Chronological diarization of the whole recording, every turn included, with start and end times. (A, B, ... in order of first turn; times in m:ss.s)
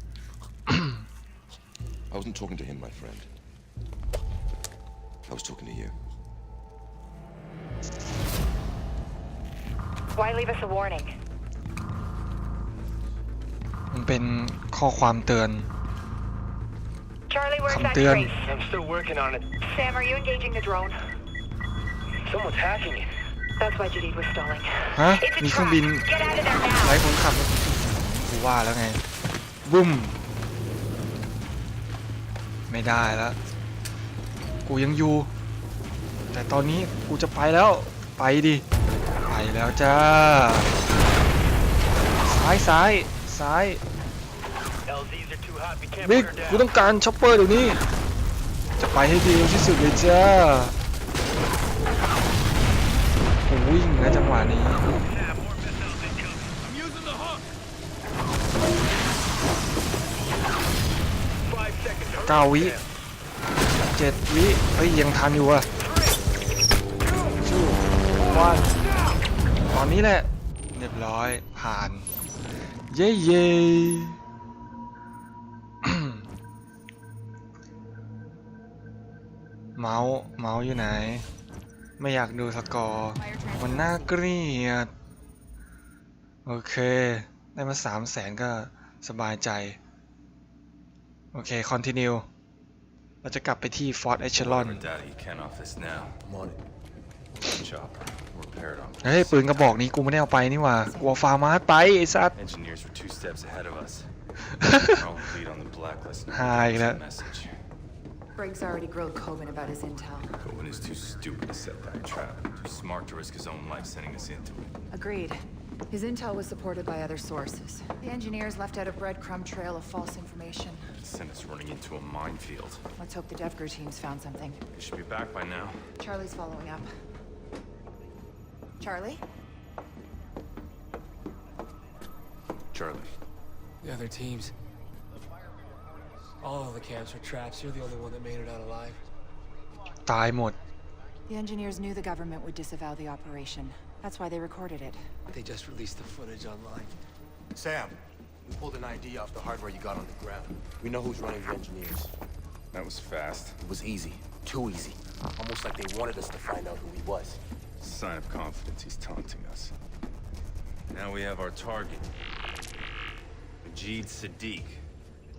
0:00.7-0:01.0 A
0:02.1-0:03.3 B
0:05.3-0:06.0 B
0:10.2-0:11.1 C
0:13.9-0:15.7 A
0:17.3-0:18.4 C
0:17.7-0:18.3 A
0:18.3-0:19.6 D
0:19.6-0:21.0 C
0:22.2-0:23.1 D
0:23.6-0:27.0 C
0:24.9-0:26.1 A
0:26.8-0:29.0 A
0:29.6-0:30.2 A
0:32.7-0:33.4 A
0:34.7-0:35.3 A
0:36.3-0:38.6 A
0:39.3-0:40.7 A
0:42.2-0:43.8 A
0:44.9-0:46.6 D
0:46.0-0:47.8 A
0:48.8-0:50.8 A
0:53.5-0:54.9 A
0:54.9-0:56.6 D
1:01.5-1:02.9 D
1:02.2-1:02.8 A
1:03.8-1:05.7 A
1:05.8-1:06.2 D
1:07.4-1:08.7 A
1:08.7-1:09.1 D
1:09.7-1:12.1 A
1:12.9-1:14.2 A
1:15.8-1:16.3 A
1:19.8-1:21.3 A
1:22.0-1:24.9 A
1:23.2-1:24.2 E
1:26.4-1:29.8 A
1:31.3-1:32.3 A
1:33.2-1:34.8 A
1:34.4-1:36.2 F
1:36.3-1:36.5 G
1:37.3-1:39.9 F
1:39.0-1:42.3 A
1:40.8-1:41.3 E
1:42.4-1:44.1 F
1:44.5-1:45.0 A
1:44.9-1:47.5 F
1:46.3-1:47.0 A
1:48.4-1:50.3 E
1:50.4-1:54.7 F
1:54.9-2:00.9 E
2:01.0-2:02.8 F
2:03.0-2:04.6 E
2:04.7-2:05.8 F
2:06.0-2:06.9 E
2:08.8-2:09.2 E
2:12.7-2:13.1 F
2:13.8-2:14.5 H
2:16.4-2:19.0 H
2:20.1-2:20.6 A
2:21.3-2:25.0 E
2:25.3-2:26.9 H
2:27.6-2:27.9 G
2:28.5-2:32.1 G
2:32.7-2:33.6 F
2:33.6-2:37.4 G
2:37.8-2:39.7 F
2:40.9-2:42.1 F
2:43.6-2:44.8 F